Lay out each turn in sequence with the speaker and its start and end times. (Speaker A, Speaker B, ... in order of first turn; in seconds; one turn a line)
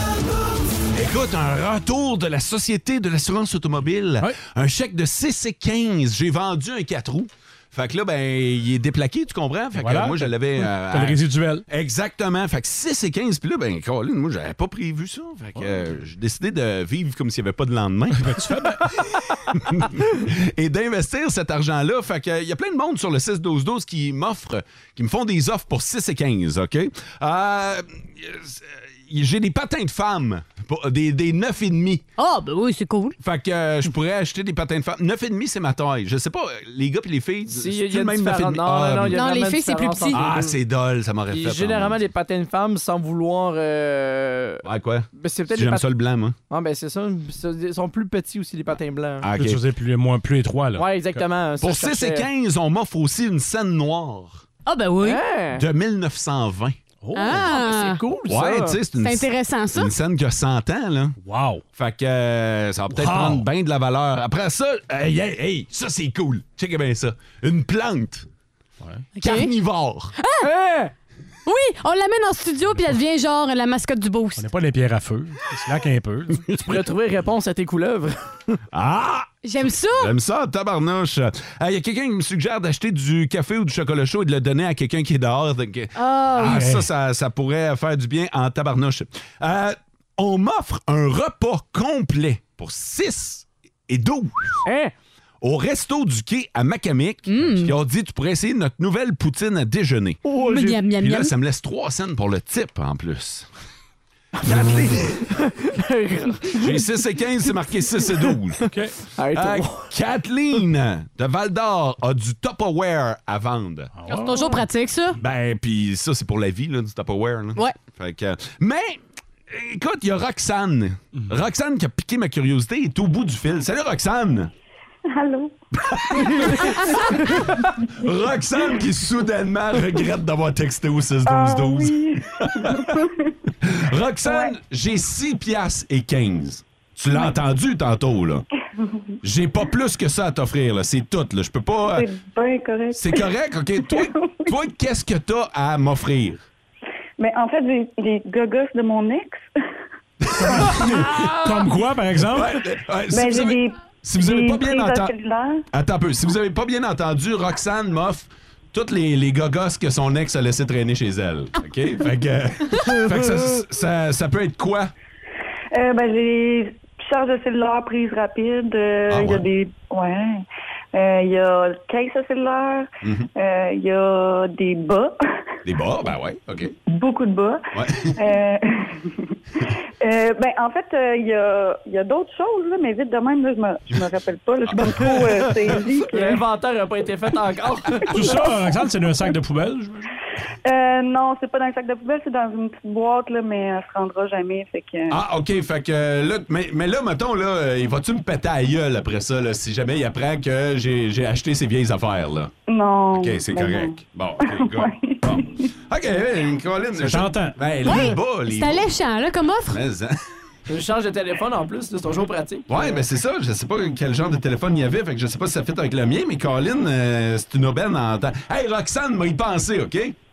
Speaker A: 0.9-32.0
Speaker B: 9.8-11.7
Speaker B: 18.2-19.2
Speaker C: 32.2-33.2
Speaker A: 33.2-39.2
Speaker D: 37.5-40.6
Speaker C: 39.1-40.2
Speaker A: 40.1-42.0
Speaker D: 41.3-44.6
Speaker A: 44.6-46.4
Speaker D: 45.2-45.9
Speaker D: 46.5-49.3
Speaker A: 49.2-49.6
Speaker B: 49.4-51.2
Speaker D: 50.8-52.3
Speaker A: 51.6-54.4
Speaker C: 54.7-55.2
Speaker D: 55.0-55.6
Speaker A: 55.6-56.8
Speaker B: 57.0-57.4
Speaker C: 57.1-58.0
Speaker D: 57.3-58.8
Speaker A: 58.3-61.2
Speaker C: 59.0-59.9
Speaker B: 61.2-61.6
Speaker A: 61.8-68.3
Speaker B: 62.9-63.5
Speaker C: 69.2-69.5
Speaker A: 69.2-70.1
Speaker C: 70.2-70.5
Speaker D: 70.4-70.9
Speaker C: 71.5-74.5
Speaker B: 74.4-76.6
Speaker D: 76.7-78.2
Speaker A: 78.7-94.6
Speaker C: 79.4-80.1
Speaker C: 86.0-86.7
Speaker B: 86.5-86.8
Speaker D: 94.7-94.9
Speaker A: 95.4-100.2
Speaker C: 97.3-97.7
Speaker D: 100.2-100.8
Speaker C: 100.4-101.3
Speaker A: 101.0-103.5
Speaker A: 104.4-105.3
Speaker D: 104.4-106.8
Speaker A: 106.5-108.7
Speaker B: 108.7-109.0
Speaker D: 109.2-109.9
Speaker A: 109.3-113.9
Speaker B: 114.0-114.6
Speaker C: 114.1-115.2
Speaker A: 115.2-124.5
Speaker E: 125.1-127.2
Speaker A: 125.8-133.1
Speaker E: 131.3-133.3
Speaker A: 133.6-138.4
Speaker E: 134.2-134.5
Speaker A: 139.2-142.1
Speaker E: 141.9-143.3
Speaker A: 142.9-146.4
Speaker E: 143.8-144.5
Speaker E: 147.2-149.4
Speaker A: 150.2-151.2
Speaker B: 150.4-152.6
Speaker D: 150.9-151.7
Speaker A: 152.2-155.1
Speaker E: 153.1-155.6
Speaker A: 155.7-164.9
Speaker E: 165.7-175.2
Speaker A: 169.1-169.4
Speaker A: 173.0-173.3
Speaker A: 175.7-176.7
Speaker E: 176.9-179.1
Speaker A: 177.7-178.2
Speaker E: 180.0-186.4
Speaker A: 184.7-185.7
Speaker D: 186.1-188.5
Speaker B: 188.1-190.1
Speaker E: 190.7-195.2
Speaker A: 195.1-202.5
Speaker E: 202.7-205.7
Speaker A: 203.2-208.9
Speaker B: 207.0-207.6
Speaker C: 207.9-209.8
Speaker A: 209.7-210.2
Speaker D: 210.7-213.0
Speaker A: 212.7-220.2